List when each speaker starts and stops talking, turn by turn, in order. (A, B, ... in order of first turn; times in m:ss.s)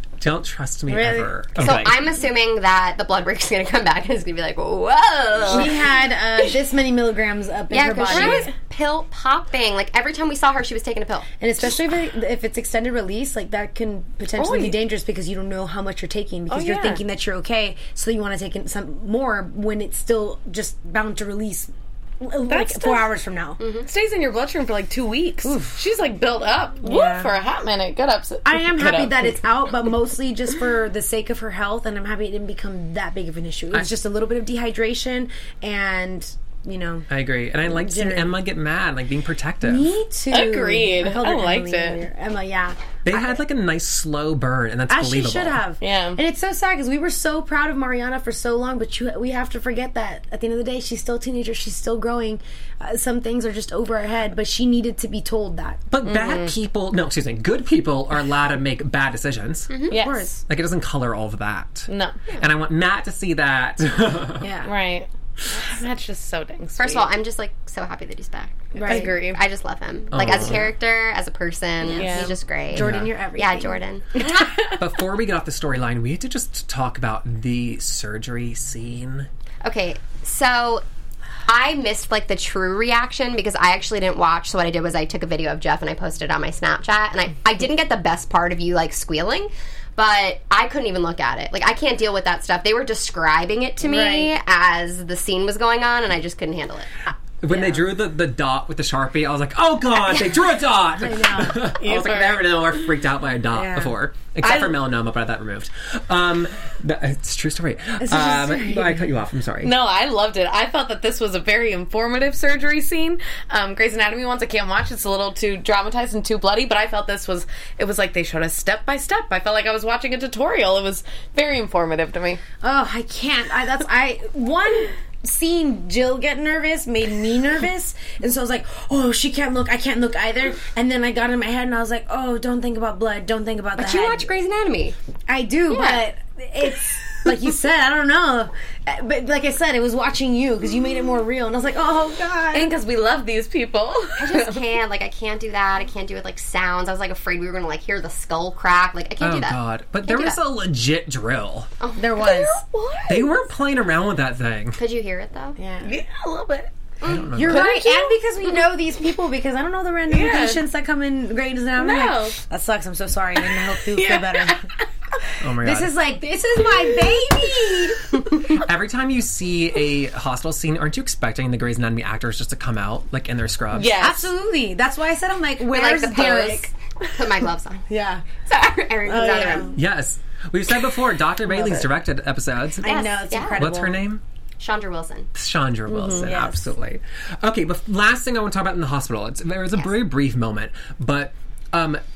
0:00.2-0:02.1 A
0:00.9-0:01.3 B
0:01.6-0:05.8 C
0:05.5-0:05.8 D
0:05.5-0:08.5 B
0:07.7-0:11.3 C
0:08.1-0:08.5 D
0:11.4-0:23.6 B
0:14.4-0:14.8 D
0:16.5-0:17.0 D
0:22.5-0:23.1 D
0:23.6-0:23.9 C
0:23.9-0:29.4 D
0:25.4-0:25.8 B
0:26.8-0:27.4 B
0:28.4-0:37.1 B
0:37.1-0:40.0 A
0:37.6-0:38.4 B
0:39.6-0:43.4 B
0:40.3-0:42.0 D
0:43.0-0:45.6 A
0:44.9-0:55.8 B
0:45.8-0:46.2 D
0:55.9-0:59.7 A
0:56.1-0:56.5 D
0:59.7-1:00.0 C
0:59.9-1:00.3 D
0:59.9-1:00.4 B
1:00.5-1:04.5 A
1:01.9-1:02.2 D
1:04.4-1:04.7 B
1:04.6-1:07.1 D
1:06.8-1:14.1 C
1:08.8-1:09.2 B
1:08.8-1:09.4 D
1:10.1-1:10.7 A
1:11.8-1:13.8 B
1:11.9-1:12.3 D
1:12.7-1:13.1 A
1:14.2-1:14.7 D
1:14.7-1:19.3 A
1:19.6-1:20.8 C
1:21.5-1:36.9 C
1:33.8-1:34.3 B
1:37.4-1:49.8 A
1:41.0-1:41.7 B
1:41.8-1:42.5 D
1:43.5-1:44.0 B
1:44.4-1:44.8 D
1:48.0-1:49.0 B
1:49.6-2:02.4 D
2:02.6-2:14.3 B
2:13.8-2:15.0 C
2:15.3-2:22.7 B
2:15.7-2:16.0 C
2:22.5-2:24.6 D
2:24.2-2:30.4 C
2:29.2-2:31.7 A
2:31.8-2:32.1 C
2:32.0-2:32.6 B
2:32.2-2:33.5 D
2:33.1-2:34.8 A
2:34.8-2:35.6 C
2:35.6-2:36.0 B
2:35.8-2:36.7 D
2:37.0-2:37.5 C
2:37.0-2:37.7 A
2:37.4-2:44.6 B
2:37.5-2:38.6 D
2:40.1-2:40.6 D
2:41.8-2:42.4 D
2:43.9-2:44.8 D
2:45.4-2:45.9 A
2:45.6-2:48.2 B
2:48.5-2:54.0 A
2:53.7-2:54.3 D
2:54.0-2:56.7 B
2:55.7-2:57.8 C
2:57.9-2:58.3 B
2:58.4-2:59.8 C
2:59.0-2:59.8 B
2:59.7-3:02.8 A
3:01.5-3:01.8 D
3:02.8-3:04.0 B
3:02.8-3:03.6 C
3:03.6-3:04.2 A
3:04.6-3:05.3 C
3:05.3-3:12.0 A
3:05.9-3:06.3 D
3:06.1-3:06.6 B